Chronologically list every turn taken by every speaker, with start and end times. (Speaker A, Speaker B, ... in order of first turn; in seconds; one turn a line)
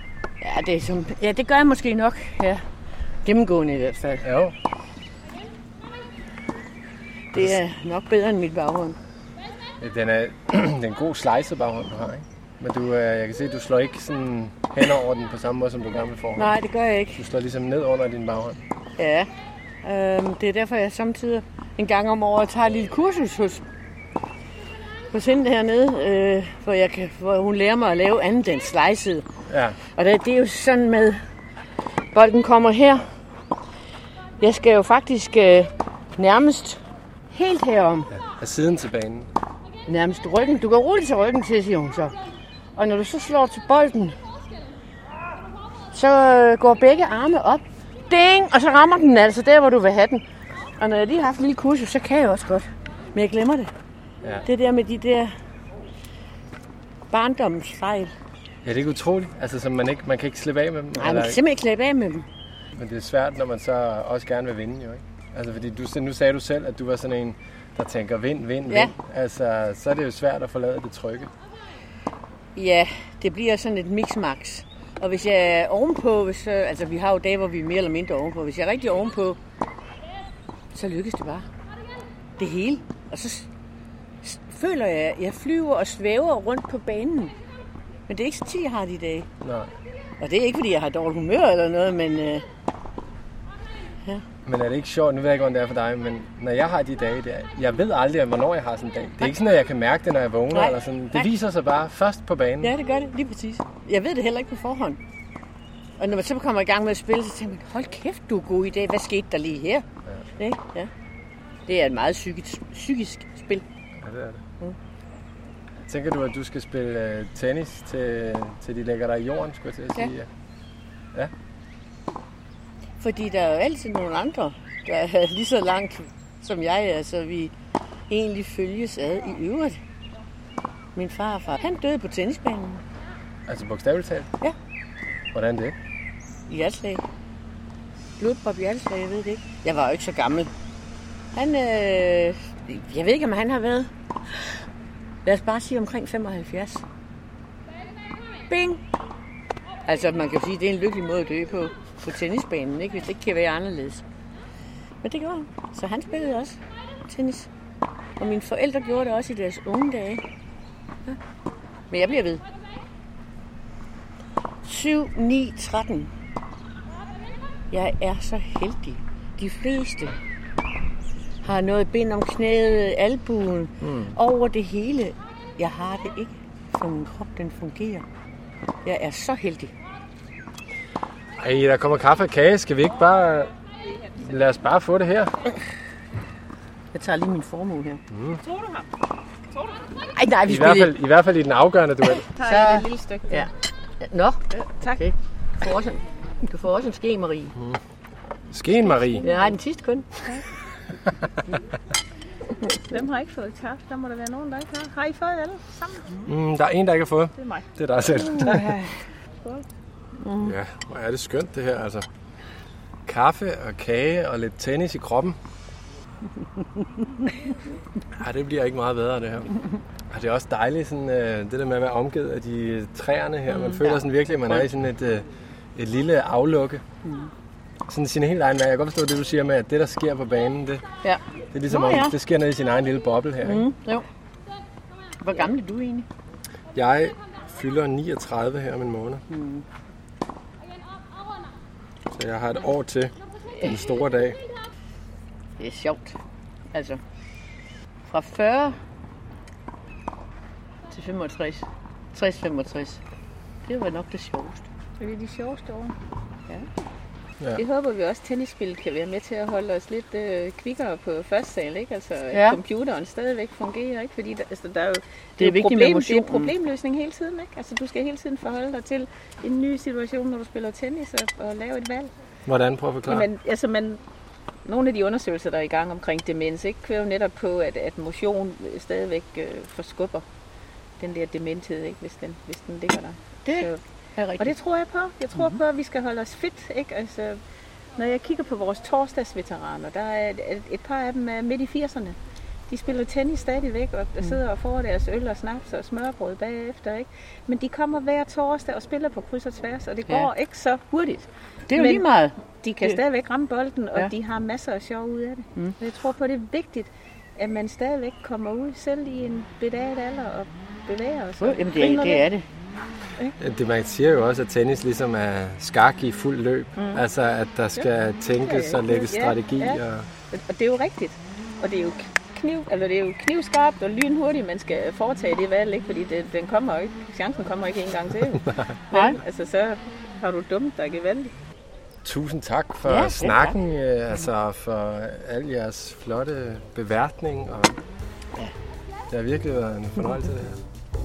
Speaker A: 0.4-2.6
Speaker A: 3.2-4.2
Speaker B: 4.2-4.5
Speaker A: 7.3-9.0
Speaker B: 9.8-16.5
Speaker A: 16.4-17.2
Speaker B: 17.1-18.6
Speaker A: 19.0-19.3
Speaker A: 19.8-23.6
Speaker A: 25.1-29.3
Speaker B: 29.5-29.8
Speaker A: 29.9-31.2
Speaker A: 32.1-33.1
Speaker A: 34.4-38.1
Speaker B: 38.1-39.3
Speaker A: 39.9-42.2
Speaker A: 42.8-44.2
Speaker A: 45.9-53.7
Speaker A: 54.4-55.4
Speaker A: 57.1-58.1
Speaker B: 58.6-61.4
Speaker A: 60.9-62.3
Speaker B: 62.7-71.3
Speaker A: 68.7-68.9
Speaker A: 72.5-79.4
Speaker A: 80.7-81.5
Speaker A: 82.4-83.5
Speaker A: 84.2-87.3
Speaker A: 88.1-89.3
Speaker B: 89.4-89.7
Speaker A: 90.2-92.5
Speaker B: 94.4-102.7
Speaker A: 100.5-101.3
Speaker A: 102.6-105.0
Speaker A: 106.0-109.8
Speaker A: 110.4-110.9
Speaker A: 111.7-113.7
Speaker B: 114.0-114.4
Speaker B: 115.8-120.3
Speaker A: 123.0-127.5
Speaker A: 128.1-129.8
Speaker A: 130.9-132.8
Speaker B: 133.4-134.3
Speaker B: 135.3-135.8
Speaker A: 136.5-137.0
Speaker A: 138.2-140.5
Speaker A: 141.3-144.6
Speaker A: 145.2-146.8
Speaker A: 148.5-148.8
Speaker A: 149.8-154.1
Speaker A: 155.0-157.5
Speaker A: 158.2-160.2
Speaker A: 161.9-162.4
Speaker A: 164.6-166.1
Speaker A: 167.7-170.2
Speaker A: 171.4-178.1
Speaker B: 173.8-174.1
Speaker A: 178.8-179.7
Speaker B: 181.4-183.5
Speaker B: 184.1-185.5
Speaker A: 186.9-188.0
Speaker B: 188.1-188.4
Speaker C: 188.4-188.9
Speaker C: 189.5-189.9
Speaker A: 190.0-190.9
Speaker B: 190.4-192.3
Speaker C: 192.1-193.5
Speaker A: 192.4-197.6
Speaker C: 194.6-195.0
Speaker B: 198.5-199.2
Speaker C: 198.8-199.6
Speaker A: 199.2-200.3
Speaker C: 202.8-206.2
Speaker B: 206.2-208.7
Speaker C: 207.4-207.7
Speaker C: 208.2-209.7
Speaker A: 210.2-210.5
Speaker B: 210.4-212.1
Speaker B: 213.1-215.4
Speaker B: 218.1-219.6
Speaker B: 220.1-226.8
Speaker A: 223.5-224.6
Speaker A: 227.0-227.3
Speaker B: 227.9-230.8
Speaker A: 231.0-232.1
Speaker B: 231.5-233.7
Speaker A: 233.4-234.1
Speaker A: 235.2-236.1
Speaker B: 236.7-239.2
Speaker A: 239.3-239.6
Speaker B: 242.1-244.4
Speaker A: 245.6-246.2
Speaker A: 246.7-247.0
Speaker A: 248.1-248.8
Speaker A: 250.9-253.0
Speaker A: 253.7-254.7
Speaker C: 255.0-255.9
Speaker C: 257.5-272.1
Speaker A: 262.3-262.6
Speaker A: 265.4-266.5
Speaker B: 272.4-273.3
Speaker C: 273.1-274.0
Speaker C: 274.6-280.2
Speaker C: 281.0-283.8
Speaker A: 283.4-284.5
Speaker C: 284.4-287.4
Speaker C: 288.0-292.2
Speaker C: 292.7-312.3
Speaker A: 301.7-303.0
Speaker A: 311.4-312.4
Speaker B: 313.4-320.1
Speaker C: 316.8-317.0
Speaker C: 317.7-331.3
Speaker A: 328.9-329.2
Speaker B: 332.0-337.8
Speaker A: 332.8-333.6
Speaker B: 339.1-340.6